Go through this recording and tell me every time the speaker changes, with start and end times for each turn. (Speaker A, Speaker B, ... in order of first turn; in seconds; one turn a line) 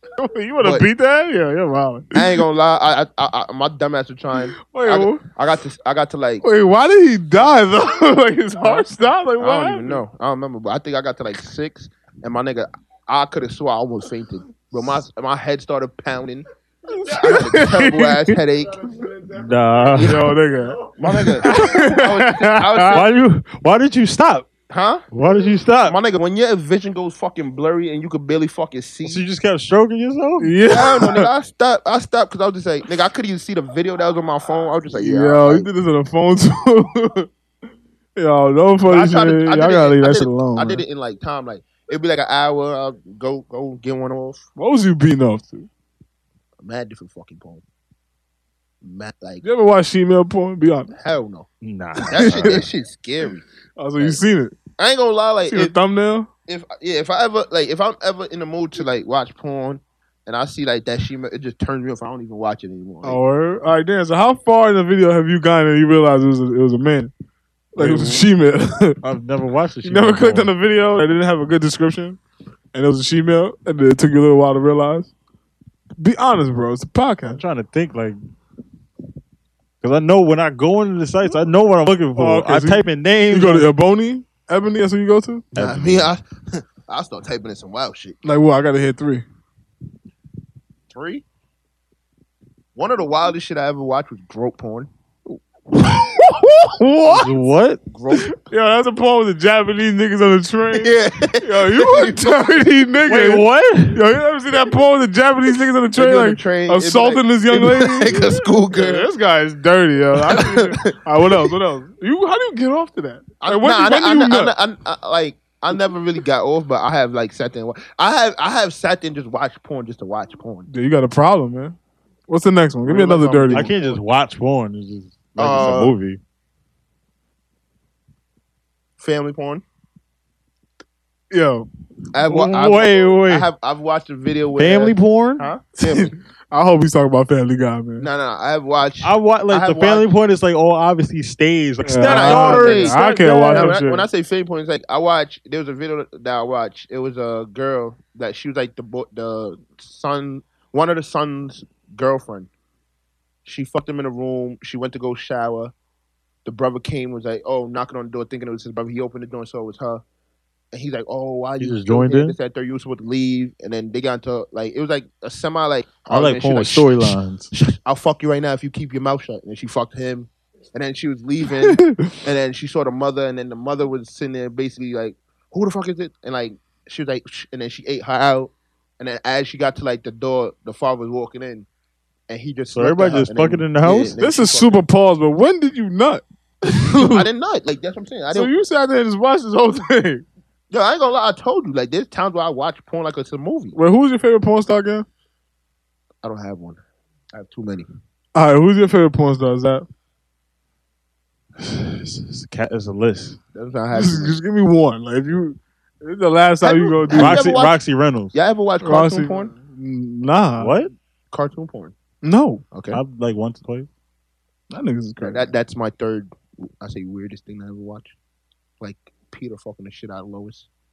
Speaker A: 0.2-2.4
Speaker B: 0.6-0.9
Speaker B: 2.1-6.5
Speaker A: 4.6-5.2
Speaker A: 6.4-10.0
Speaker B: 8.6-8.9
Speaker B: 9.4-16.5
Speaker A: 16.9-18.4
Speaker B: 17.1-18.8
Speaker C: 19.3-20.3
Speaker B: 20.0-20.3
Speaker A: 20.0-23.0
Speaker B: 20.9-23.1
Speaker C: 22.9-24.5
Speaker B: 24.7-25.1
Speaker C: 25.1-26.0
Speaker B: 25.8-29.2
Speaker C: 29.0-30.6
Speaker A: 30.4-31.3
Speaker B: 30.6-35.7
Speaker A: 34.9-37.3
Speaker A: 38.2-40.8
Speaker B: 38.9-44.5
Speaker A: 44.6-45.7
Speaker B: 46.6-47.6
Speaker B: 48.8-49.4
Speaker A: 49.4-50.9
Speaker B: 50.9-51.5
Speaker C: 51.6-52.6
Speaker B: 52.1-53.5
Speaker A: 52.1-52.6
Speaker A: 53.8-54.5
Speaker B: 54.8-55.7
Speaker A: 55.5-56.3
Speaker B: 56.5-63.2
Speaker A: 63.0-67.1
Speaker C: 67.8-68.3
Speaker A: 67.8-69.0
Speaker C: 69.0-70.5
Speaker A: 69.8-72.2
Speaker A: 72.7-75.1
Speaker A: 76.0-77.4
Speaker C: 77.3-78.2
Speaker C: 79.8-83.7
Speaker A: 82.2-85.5
Speaker C: 85.5-86.1
Speaker B: 85.6-88.2
Speaker A: 88.2-89.2
Speaker B: 90.9-91.2
Speaker B: 92.8-94.9
Speaker A: 95.7-97.3
Speaker C: 97.0-97.8
Speaker B: 97.9-98.3
Speaker A: 98.1-114.5
Speaker B: 100.8-102.3
Speaker C: 103.1-104.0
Speaker B: 106.0-109.1
Speaker B: 110.3-111.5
Speaker B: 113.4-120.7
Speaker A: 120.7-121.8
Speaker A: 122.3-123.7
Speaker C: 122.9-126.2
Speaker B: 123.3-124.0
Speaker B: 125.4-125.9
Speaker B: 129.0-129.6
Speaker A: 131.3-131.7
Speaker B: 132.1-136.1
Speaker C: 132.3-133.5
Speaker C: 134.6-135.5
Speaker A: 135.8-138.1
Speaker B: 138.0-140.1
Speaker C: 139.0-143.0
Speaker A: 141.8-144.1
Speaker B: 142.1-152.5
Speaker C: 143.5-143.8
Speaker B: 153.4-155.7
Speaker B: 156.4-160.0
Speaker B: 160.7-181.7
Speaker C: 161.6-162.4
Speaker C: 166.1-167.5
Speaker A: 171.4-172.2
Speaker B: 182.3-184.8
Speaker C: 182.7-184.2
Speaker A: 184.2-187.3
Speaker B: 187.0-188.5
Speaker A: 188.3-190.2
Speaker B: 190.7-193.8
Speaker A: 193.8-195.1
Speaker B: 196.2-196.8
Speaker B: 197.3-197.9
Speaker A: 198.3-199.8
Speaker C: 201.6-203.4
Speaker B: 203.5-204.4
Speaker A: 203.9-207.4
Speaker B: 206.6-207.8
Speaker C: 207.1-208.4
Speaker B: 208.3-209.5
Speaker A: 208.8-210.8
Speaker C: 210.6-210.9
Speaker B: 211.3-212.0
Speaker A: 212.2-212.6
Speaker B: 212.7-213.0
Speaker C: 212.9-213.9
Speaker A: 214.7-215.5
Speaker B: 215.2-218.2
Speaker B: 218.8-220.7